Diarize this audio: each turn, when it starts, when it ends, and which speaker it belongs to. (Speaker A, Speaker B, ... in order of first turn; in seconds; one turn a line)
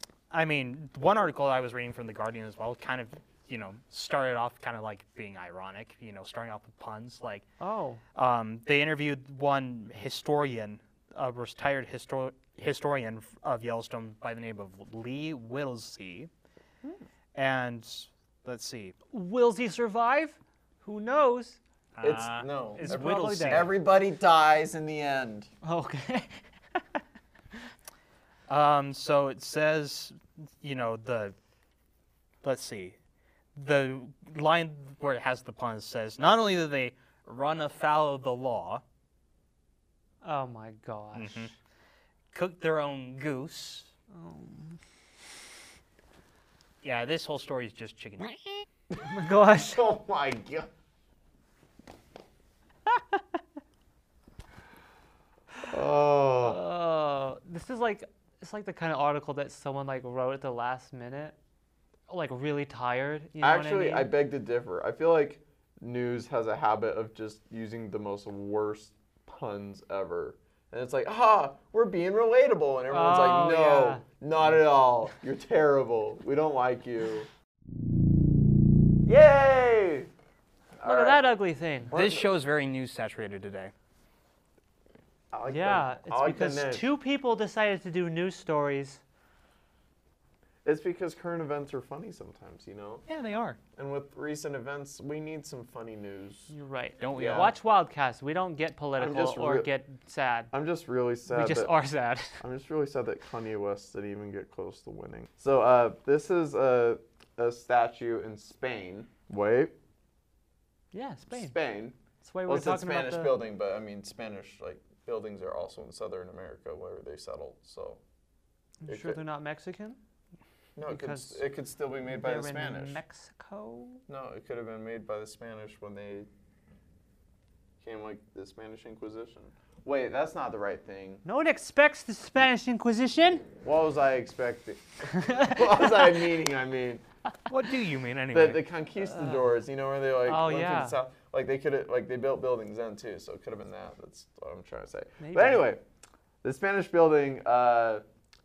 Speaker A: 0.3-7.5
Speaker B: 7.6-8.0
Speaker A: 8.1-16.3
Speaker A: 17.3-18.9
Speaker B: 19.1-21.6
Speaker A: 21.9-23.7
Speaker C: 22.0-25.5
Speaker B: 22.8-23.7
Speaker B: 25.6-26.8
Speaker A: 28.5-31.3
Speaker A: 32.4-33.0
Speaker A: 33.5-38.8
Speaker B: 40.2-41.5
Speaker A: 41.1-41.5
Speaker A: 42.3-43.9
Speaker B: 44.1-44.8
Speaker A: 46.8-48.4
Speaker C: 48.9-50.7
Speaker B: 49.0-49.8
Speaker C: 55.6-56.6
Speaker B: 56.4-61.4
Speaker B: 62.1-64.1
Speaker C: 63.4-77.3
Speaker B: 72.9-74.0
Speaker C: 79.0-80.1
Speaker C: 80.8-81.2
Speaker B: 80.8-81.9
Speaker C: 81.9-82.3
Speaker A: 81.9-83.7
Speaker C: 85.3-86.9
Speaker B: 85.5-89.0
Speaker C: 90.6-93.0
Speaker A: 93.1-93.6
Speaker C: 93.8-96.5
Speaker B: 96.5-100.5
Speaker A: 97.0-97.5
Speaker C: 97.1-97.5
Speaker C: 99.0-99.7
Speaker C: 100.5-101.7
Speaker B: 101.3-102.4
Speaker C: 102.4-109.7
Speaker B: 110.9-111.6
Speaker C: 111.3-118.0
Speaker B: 112.2-113.4
Speaker B: 118.8-120.0
Speaker C: 118.9-119.2
Speaker C: 120.8-123.0
Speaker B: 120.8-121.4
Speaker B: 122.1-124.0
Speaker C: 124.1-126.3
Speaker C: 127.8-131.2
Speaker B: 131.2-133.4
Speaker C: 133.6-137.0
Speaker B: 135.2-135.6
Speaker A: 137.5-138.6
Speaker C: 138.3-145.8
Speaker B: 140.2-141.0
Speaker B: 145.2-145.7
Speaker C: 146.4-148.0